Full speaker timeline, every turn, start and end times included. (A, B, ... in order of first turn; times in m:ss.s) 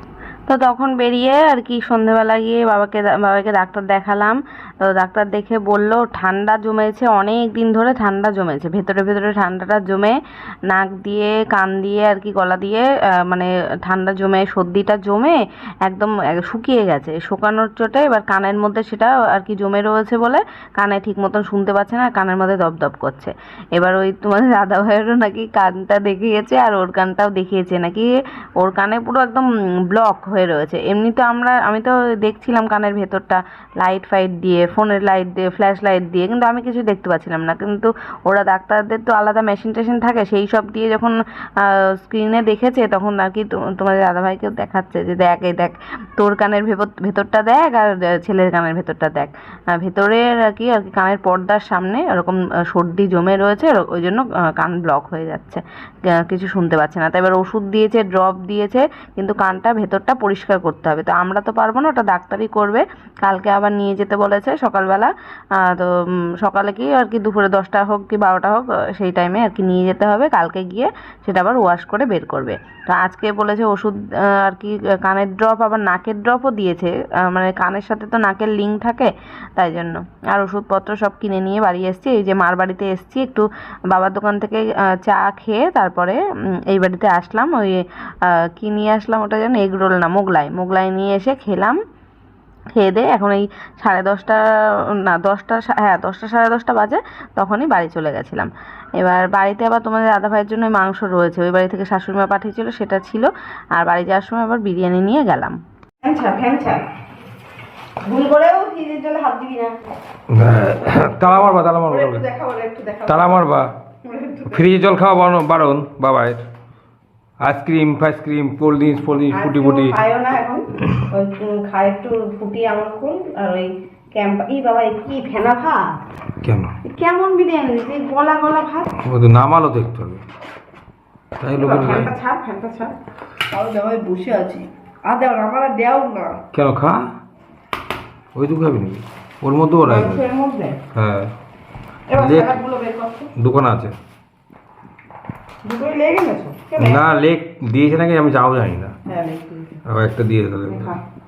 0:00.5-1:27.8 A
1:28.4-1:31.8 A
1:32.7-1:34.3 A
1:33.8-1:34.4 B
1:35.0-1:36.0 B
1:35.4-1:45.6 A
1:46.0-1:46.8 B
1:48.0-1:49.7 B
1:50.3-1:52.2 C
1:51.0-1:53.4 B
1:53.1-1:53.7 C
1:54.0-1:54.6 B
1:54.5-1:56.4 C
1:57.4-2:00.0 C
1:59.3-2:06.0 B
2:06.4-2:06.7 C
2:06.8-2:08.9 B
2:09.0-2:10.2 C
2:11.4-2:12.1 C
2:11.6-2:12.9 B
2:13.5-2:16.4 B
2:16.5-2:17.1 C
2:18.4-2:20.2 C
2:19.8-2:20.8 B
2:20.9-2:21.3 C
2:22.1-2:23.3 B
2:22.2-2:22.5 C
2:23.4-2:23.9 C
2:25.6-2:27.1 B
2:26.8-2:28.9 C
2:29.1-2:29.8 B
2:29.9-2:30.9 C
2:30.7-2:31.0 B